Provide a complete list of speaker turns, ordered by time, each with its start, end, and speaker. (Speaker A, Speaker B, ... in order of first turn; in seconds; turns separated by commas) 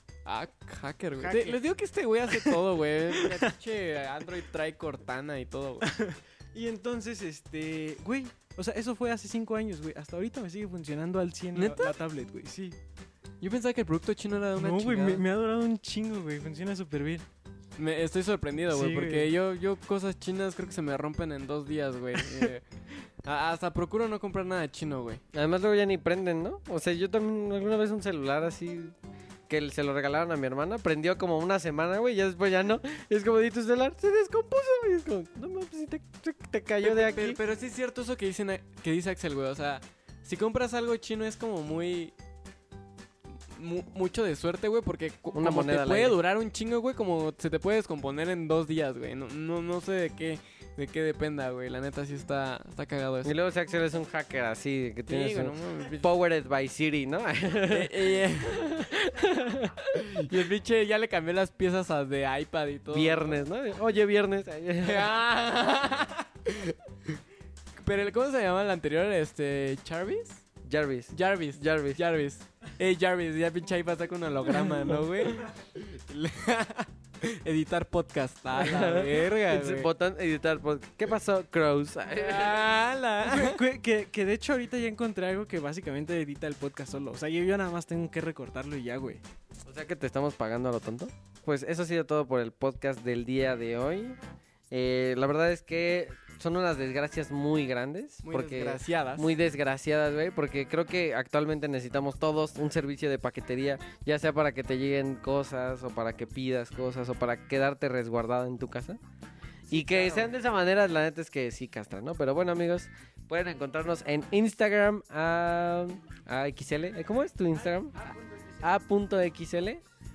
Speaker A: 0.2-5.9, Speaker B: 1.2-1.6, Speaker B: 2.3-3.5, Speaker B: 5.8-12.8, Speaker A: 11.5-11.9, Speaker A: 13.4-15.2, Speaker B: 14.6-17.2, Speaker A: 17.8-22.7, Speaker B: 18.7-19.3, Speaker A: 23.2-25.2, Speaker C: 25.3-28.9, Speaker C: 29.5-37.4, Speaker A: 36.8-42.1, Speaker A: 43.5-53.3, Speaker C: 45.3-46.2, Speaker C: 53.2-60.0, Speaker A: 55.1-56.1, Speaker A: 57.7-58.8, Speaker A: 59.9-63.4, Speaker C: 62.9-65.1, Speaker A: 64.8-67.2, Speaker A: 67.8-70.4, Speaker C: 70.6-72.0, Speaker A: 71.1-79.9, Speaker C: 78.6-82.6, Speaker A: 82.1-83.6, Speaker B: 83.2-89.2, Speaker C: 89.7-94.2, Speaker C: 94.7-109.0, Speaker A: 98.2-99.3, Speaker C: 109.7-119.8, Speaker B: 109.8-110.2